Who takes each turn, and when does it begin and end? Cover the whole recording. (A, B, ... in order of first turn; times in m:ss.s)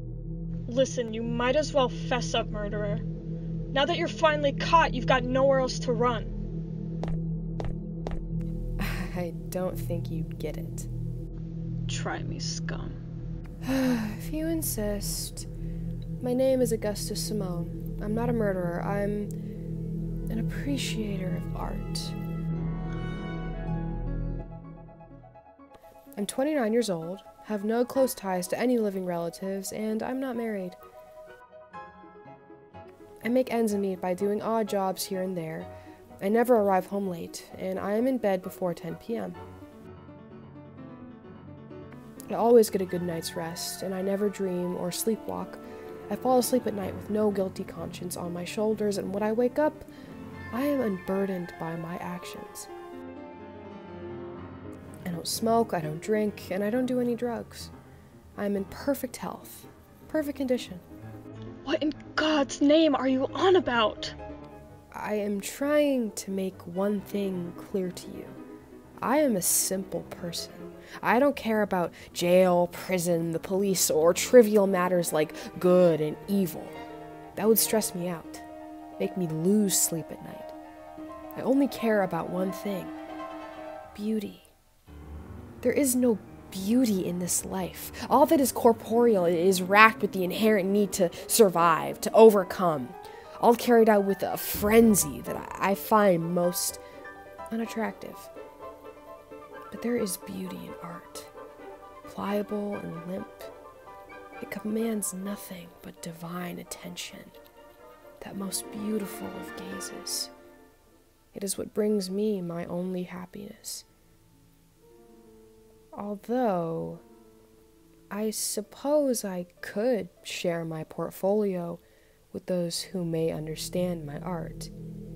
0:00.7-0:03.0 A
0:03.7-0:06.3 A
0:08.8-0:10.9 B
0:11.9-0:13.0 A
0:13.6-0:15.5 B
0:16.2-0:19.3 B
0:20.3-0:22.2 B
0:26.2-0:30.8 B
0:33.2-0:39.4 B
0:42.3-0:49.9 B
0:50.5-0:52.7 B
0:55.0-0:57.7 B
0:58.4-1:00.8 B
1:01.6-1:04.2 A
1:04.9-1:08.4 B
1:09.0-1:16.8 B
1:17.4-1:18.4 B
1:19.0-1:20.5 B
1:21.4-1:22.9 B
1:23.9-1:24.5 B
1:25.6-1:36.8 B
1:37.5-1:38.3 B
1:39.7-1:41.3 B
1:42.0-1:43.5 B
1:44.4-1:47.3 B
1:48.2-1:50.3 B
1:51.3-1:53.8 B
1:55.9-1:57.0 B
1:58.1-2:04.7 B